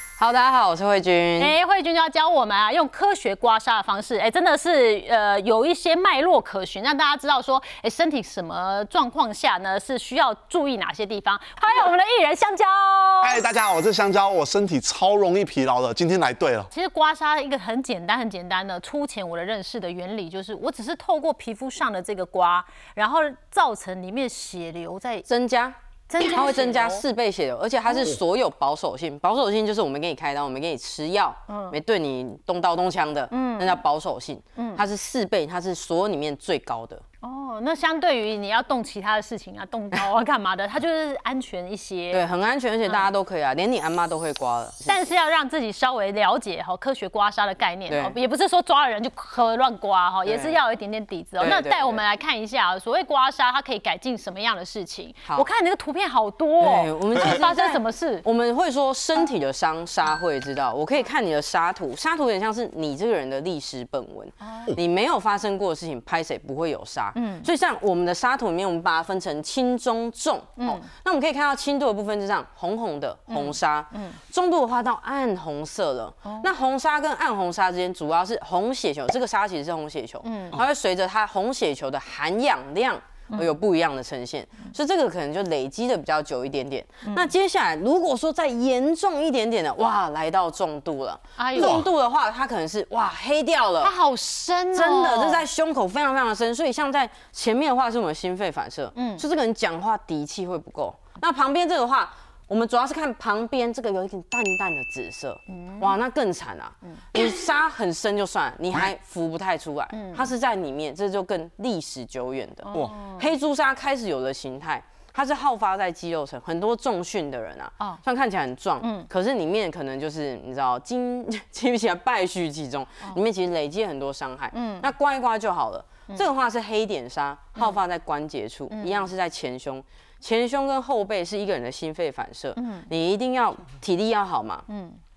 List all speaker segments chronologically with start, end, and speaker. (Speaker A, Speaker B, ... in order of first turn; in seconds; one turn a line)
Speaker A: 0.2-1.5
Speaker B: 1.4-13.4
Speaker C: 13.2-16.7
Speaker B: 16.7-25.2
Speaker A: 25.3-37.0
Speaker B: 26.1-27.0
Speaker B: 31.5-31.8
Speaker B: 33.3-33.8
Speaker B: 34.5-34.8
Speaker B: 37.2-42.2
Speaker A: 42.1-45.1
Speaker B: 44.9-58.2
Speaker A: 47.9-48.1
Speaker A: 50.2-50.6
Speaker A: 51.4-52.0
Speaker A: 56.6-93.9
Speaker B: 64.4-64.7
Speaker B: 67.1-67.5
Speaker B: 70.6-70.9
Speaker B: 73.3-74.2
Speaker B: 76.2-76.5
Speaker B: 80.2-80.6
Speaker B: 87.0-87.3
Speaker B: 91.4-91.8
Speaker C: 91.6-91.8
Speaker B: 93.8-95.5
Speaker A: 94.7-134.7
Speaker B: 98.9-99.2
Speaker B: 105.5-106.0
Speaker B: 106.8-107.4
Speaker B: 109.9-110.3
Speaker B: 112.7-113.3
Speaker B: 118.8-119.1
Speaker B: 124.5-124.9
Speaker B: 128.7-129.1
Speaker B: 132.6-132.9
Speaker B: 134.7-135.0